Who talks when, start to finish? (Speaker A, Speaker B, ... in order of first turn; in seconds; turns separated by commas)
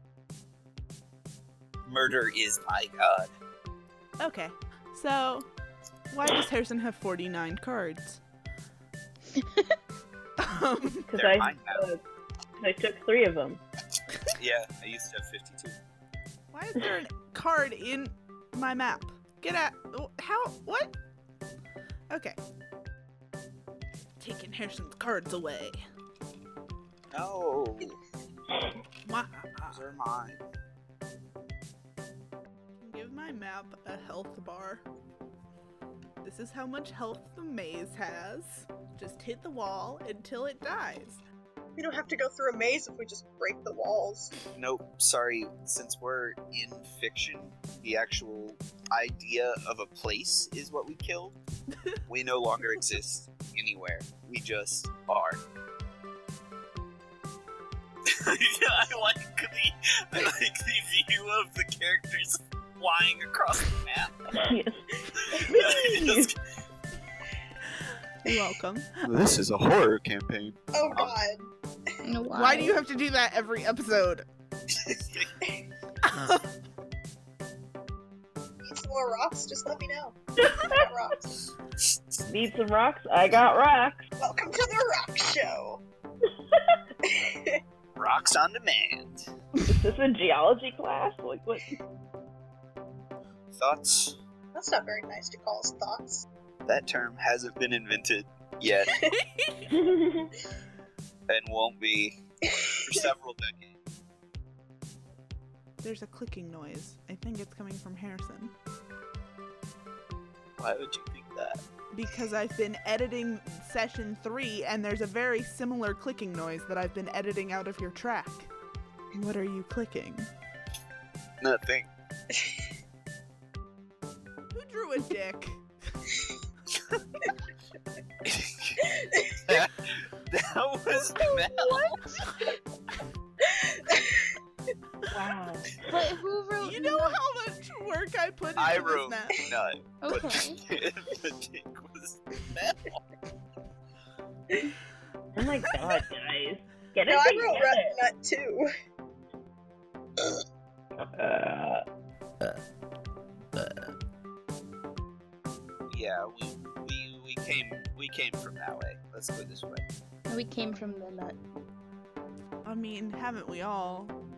Speaker A: 1.8-3.3, Speaker B: 4.2-5.5, Speaker B: 6.1-8.2, Speaker C: 9.3-9.7, Speaker B: 10.4-11.1, Speaker D: 11.1-12.0, Speaker A: 11.1-11.9, Speaker D: 12.6-13.6, Speaker A: 14.3-15.8, Speaker B: 16.5-20.9, Speaker B: 22.1-22.4, Speaker B: 24.2-25.8, Speaker A: 27.1-28.0, Speaker B: 29.0-29.8, Speaker A: 29.7-30.4, Speaker B: 32.8-34.8, Speaker B: 36.2-41.2, Speaker E: 41.8-44.3, Speaker A: 44.5-51.4, Speaker A: 52.1-55.4, Speaker A: 58.0-64.3, Speaker D: 64.3-66.3, Speaker A: 65.2-66.3, Speaker B: 68.2-69.0, Speaker A: 69.0-71.1, Speaker E: 70.7-71.5, Speaker C: 72.0-72.8, Speaker B: 72.3-74.2, Speaker A: 74.7-75.3, Speaker B: 76.0-76.5, Speaker E: 78.6-81.4, Speaker D: 80.4-80.9, Speaker D: 82.2-84.0, Speaker E: 84.2-85.8, Speaker E: 87.0-87.6, Speaker A: 88.0-89.3, Speaker D: 89.7-91.8, Speaker A: 93.5-94.2, Speaker E: 94.5-96.2, Speaker A: 96.6-99.0, Speaker E: 98.8-99.2, Speaker B: 99.3-99.7, Speaker D: 99.7-100.3, Speaker A: 101.3-102.2, Speaker E: 102.5-103.1, Speaker A: 102.7-103.8, Speaker B: 105.8-108.5, Speaker A: 110.6-111.6, Speaker B: 111.9-118.5, Speaker B: 119.1-120.3, Speaker A: 121.4-121.9, Speaker B: 124.5-126.0, Speaker A: 128.2-132.2, Speaker E: 128.9-129.4, Speaker C: 131.9-132.3, Speaker E: 133.4-134.3, Speaker D: 135.1-136.0, Speaker C: 135.9-137.2, Speaker B: 136.6-139.4, Speaker A: 138.6-143.0, Speaker C: 140.0-140.6, Speaker D: 145.3-147.9, Speaker E: 147.1-148.7, Speaker D: 151.0-151.8, Speaker A: 155.9-159.8, Speaker C: 160.3-161.4, Speaker B: 162.6-164.2